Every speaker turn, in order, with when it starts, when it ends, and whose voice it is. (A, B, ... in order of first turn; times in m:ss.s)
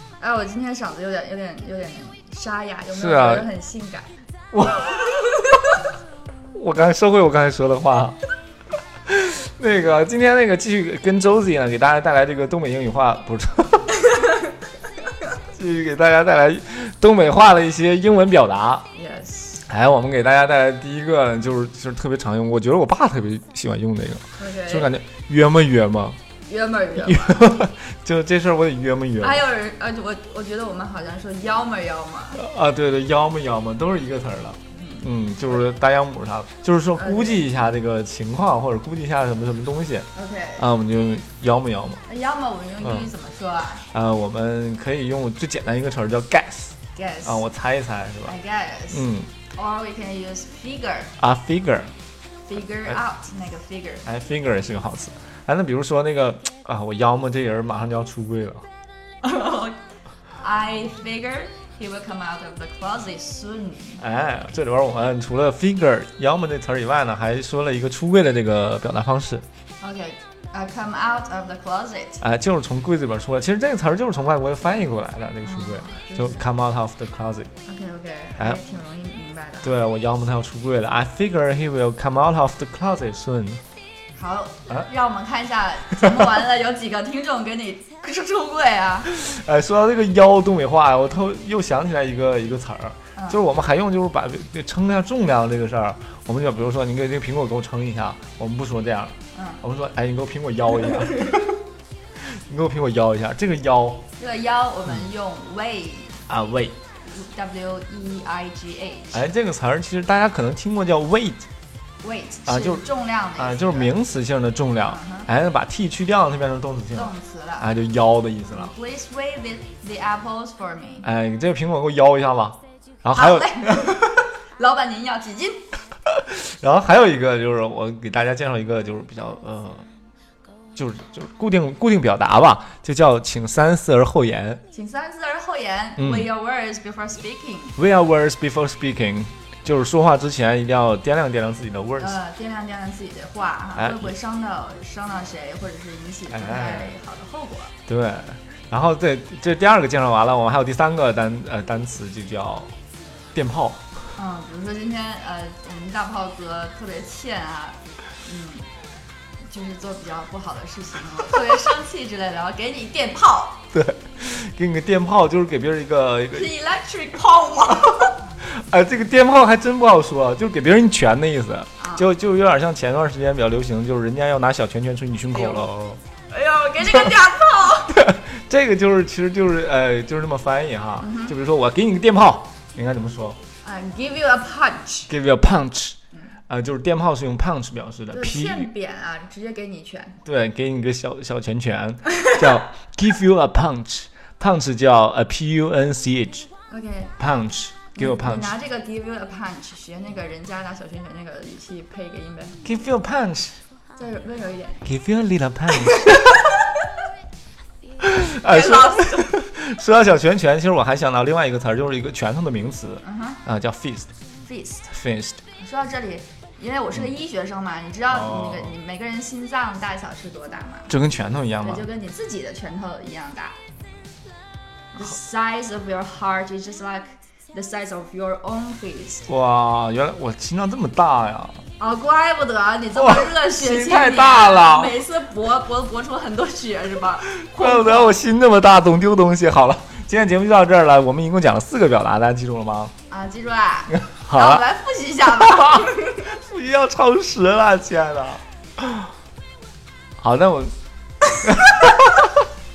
0:00.2-0:04.2 A
0:02.9-0:03.5 B
0:04.5-0:05.0 B
0:06.5-0:08.2 B
0:09.1-0:13.9 B
0:15.4-0:18.9 B
0:18.9-0:19.6 A
0:19.6-0:26.2 B
0:24.4-0:24.9 A
0:26.4-0:27.5 A
0:27.0-0:29.4 B
0:29.2-0:32.4 A
0:32.4-0:42.0 B
0:34.7-0:35.6 A
0:37.0-0:37.5 A
0:40.1-0:40.6 A
0:42.0-0:43.9 A
0:43.9-0:48.3 B
0:46.9-0:47.4 A
0:48.2-0:51.2 A
0:48.9-0:49.3 B
0:51.2-0:51.9 B
0:52.5-0:54.1 A
0:54.0-0:58.6 B
0:59.2-0:59.8 A
1:00.4-1:04.0 A
1:04.0-1:09.4 B
1:09.8-1:12.2 A
1:12.2-1:17.5 B
1:15.4-1:16.4 A
1:17.7-1:19.7 A
1:19.6-1:23.6 B
1:24.1-1:29.1 A
1:29.1-1:41.4 B
1:33.1-1:33.4 A
1:39.3-1:39.6 A
1:42.2-1:44.0 B
1:44.2-1:46.2 A
1:46.3-1:46.8 B
1:47.0-1:49.2 A
1:49.1-1:51.4 B
1:52.0-1:53.9 A
1:52.4-1:58.7 B
1:54.8-1:55.3 A
1:56.9-1:57.7 A
1:58.5-2:01.1 A
2:01.0-2:03.9 B
2:03.1-2:05.7 A
2:06.2-2:09.8 B
2:10.8-2:14.6 B
2:14.7-2:17.8 A
2:16.0-2:16.3 B
2:17.8-2:22.2 B
2:22.0-2:27.7 A
2:23.8-2:24.1 B
2:26.3-2:26.9 B
2:27.9-2:32.7 B
2:33.3-2:33.8 B
2:34.1-2:38.7 A
2:39.4-2:43.6 A
2:43.7-2:46.5 B
2:46.3-2:48.2 A
2:48.4-2:56.0 B
2:51.8-2:52.1 A
2:55.3-2:55.7 A
2:56.3-2:58.1 A
2:58.0-3:03.4 B
3:01.0-3:01.3 A
3:03.6-3:05.1 A
3:05.1-3:06.0 B
3:06.5-3:08.7 B
3:08.1-3:10.2 A
3:10.2-3:16.5 B
3:16.7-3:17.2 A
3:17.2-3:18.5 B
3:17.9-3:22.6 A
3:22.6-3:23.6 B
3:24.0-3:24.8 A
3:24.8-3:26.3 B
3:28.0-3:34.1 B
3:28.4-3:29.4 A
3:33.0-3:33.4 A
3:34.4-3:34.9 A
3:34.9-3:35.4 B
3:35.6-3:40.9 A
3:38.1-3:38.8 B
3:40.9-3:41.9 B
3:41.6-3:43.6 A
3:44.9-3:49.2 A
3:49.3-3:51.6 B
3:51.8-3:58.2 A
3:52.9-3:55.0 B
3:57.3-4:02.9 B
4:03.1-4:06.3 A
4:04.1-4:04.6 B
4:05.4-4:09.1 B
4:10.2-4:10.7 B
4:11.3-4:12.3 B